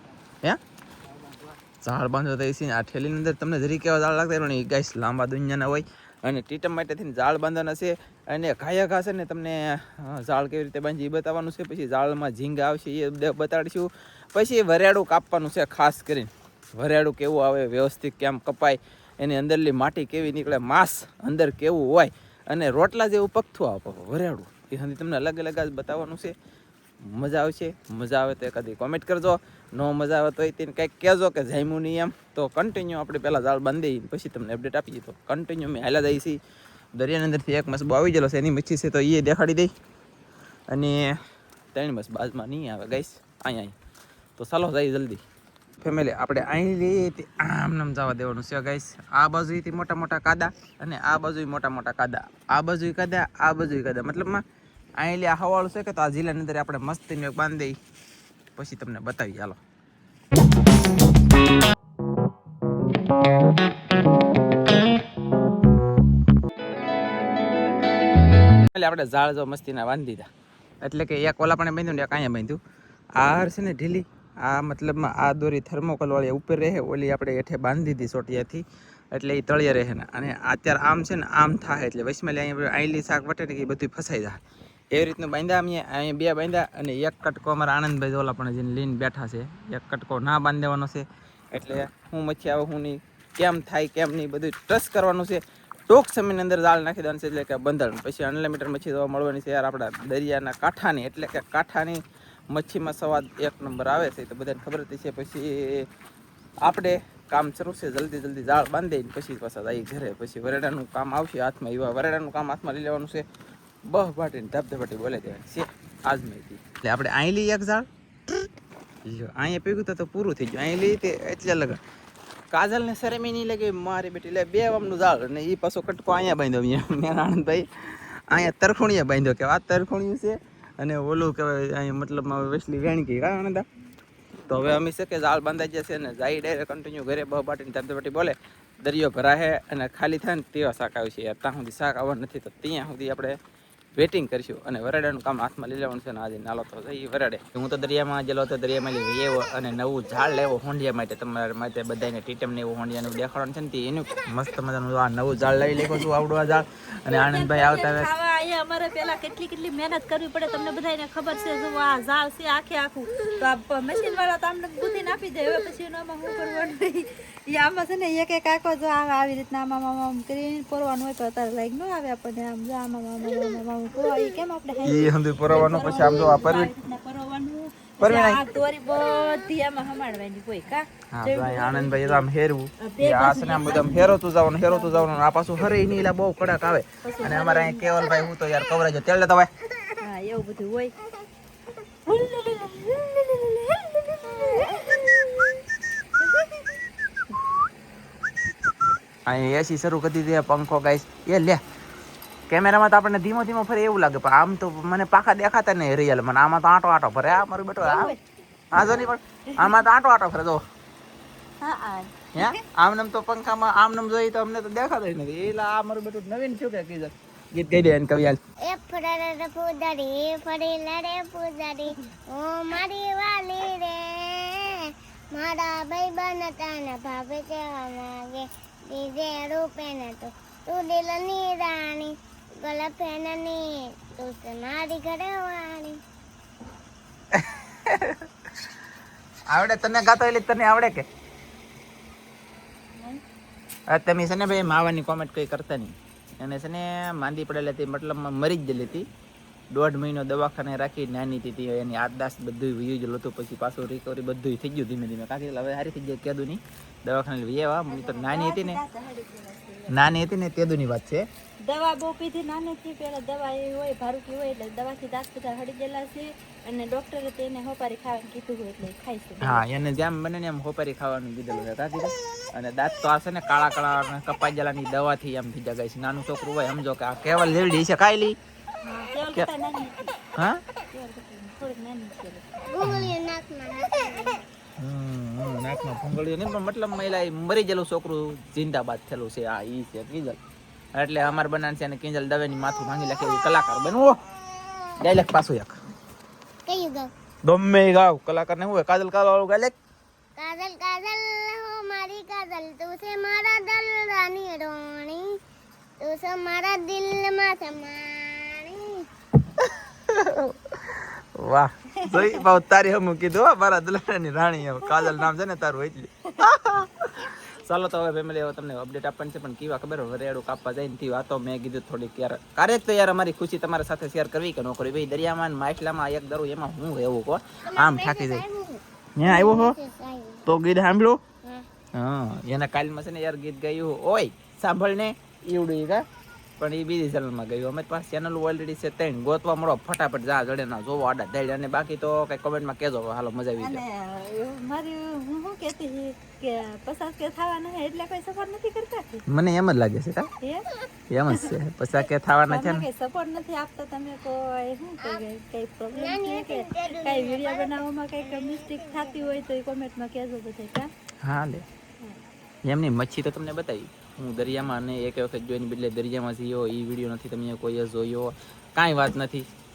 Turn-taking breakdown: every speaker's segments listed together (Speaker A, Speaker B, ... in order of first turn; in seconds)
Speaker A: 1.8-26.3, 27.1-36.4, 37.0-39.7, 40.7-41.0, 41.7-43.7, 44.4-45.2, 45.8-54.4, 55.0-57.8, 58.6-59.6, 68.7-70.3, 70.8-72.6, 73.2-84.4, 84.9-105.9, 106.7-113.2, 113.9-117.9, 119.0-121.8, 122.5-127.7, 128.3-133.7, 134.5-143.4, 144.0-158.1, 174.8-176.7, 178.0-178.4, 181.1-189.5, 199.3-201.6, 202.5-208.2, 208.7-210.6, 212.3-218.4, 237.3-238.2, 239.5-241.1, 243.9-249.1, 249.7-258.8, 259.9-261.2, 269.4-278.4, 282.8-283.1, 284.8-290.4, 291.0-294.2, 295.0-295.8, 297.4-299.7, 309.6-328.4, 329.2-329.8, 330.5-331.2, 332.0-336.0, 336.6-343.8, 349.3-350.3, 351.1-352.9, 361.2-361.6, 362.6-369.5
Speaker B: 157.1-182.3, 182.8-185.1, 187.0-188.1, 190.0-190.9, 192.1-197.4, 207.8-209.8, 211.6-212.6, 242.9-243.2, 257.9-260.2, 261.6-269.6, 278.8-280.0, 280.9-282.6, 312.0-312.4, 314.9-315.3, 343.6-349.2, 352.5-360.9
Speaker C: 218.7-236.0, 282.7-284.4, 296.7-297.1, 300.4-305.4, 306.0-309.1, 327.7-330.5, 355.9-359.3